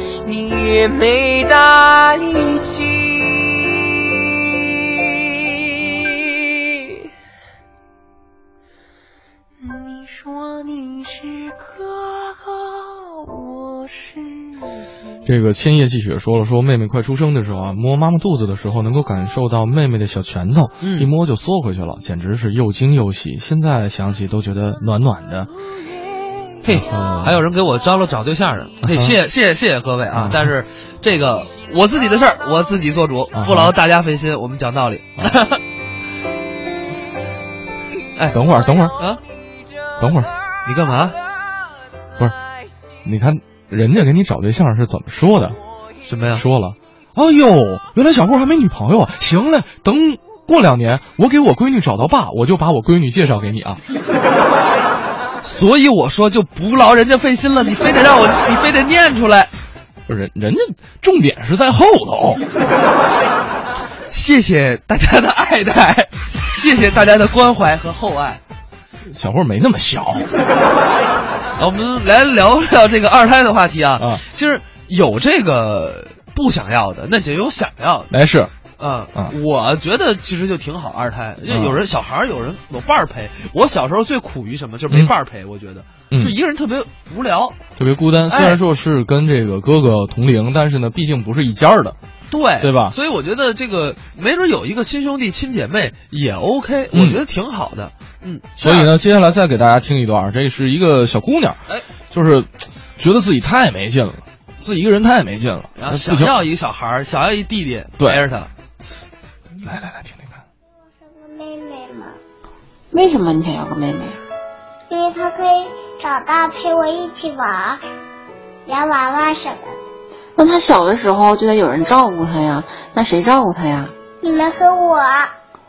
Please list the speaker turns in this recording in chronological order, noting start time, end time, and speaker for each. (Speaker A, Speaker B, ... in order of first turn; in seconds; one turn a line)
Speaker A: 0.2-6.1
Speaker A: 9.6-14.8
Speaker B: 15.3-25.5
Speaker C: 20.8-21.1
Speaker C: 26.6-35.6
Speaker B: 26.7-27.4
Speaker B: 28.8-29.2
Speaker B: 30.1-30.4
Speaker B: 33.3-33.7
Speaker B: 38.3-39.0
Speaker B: 40.0-40.3
Speaker C: 40.6-41.2
Speaker B: 43.0-45.6
Speaker C: 46.0-46.4
Speaker B: 46.4-53.8
Speaker C: 55.4-59.5
Speaker B: 60.1-62.4
Speaker C: 64.1-68.4
Speaker B: 69.0-70.3
Speaker C: 71.6-78.1
Speaker B: 74.0-74.2
Speaker B: 78.1-78.5
Speaker C: 78.8-87.6
Speaker B: 81.5-81.8
Speaker B: 87.8-92.0
Speaker C: 88.3-88.6
Speaker C: 92.3-98.9
Speaker B: 92.6-92.9
Speaker B: 96.9-97.2
Speaker B: 98.6-101.6
Speaker B: 102.1-106.3
Speaker C: 105.8-108.5
Speaker B: 109.6-110.3
Speaker D: 111.0-112.2
Speaker E: 112.9-114.2
Speaker D: 114.9-117.8
Speaker D: 118.7-119.8
Speaker E: 120.4-123.9
Speaker D: 124.2-125.3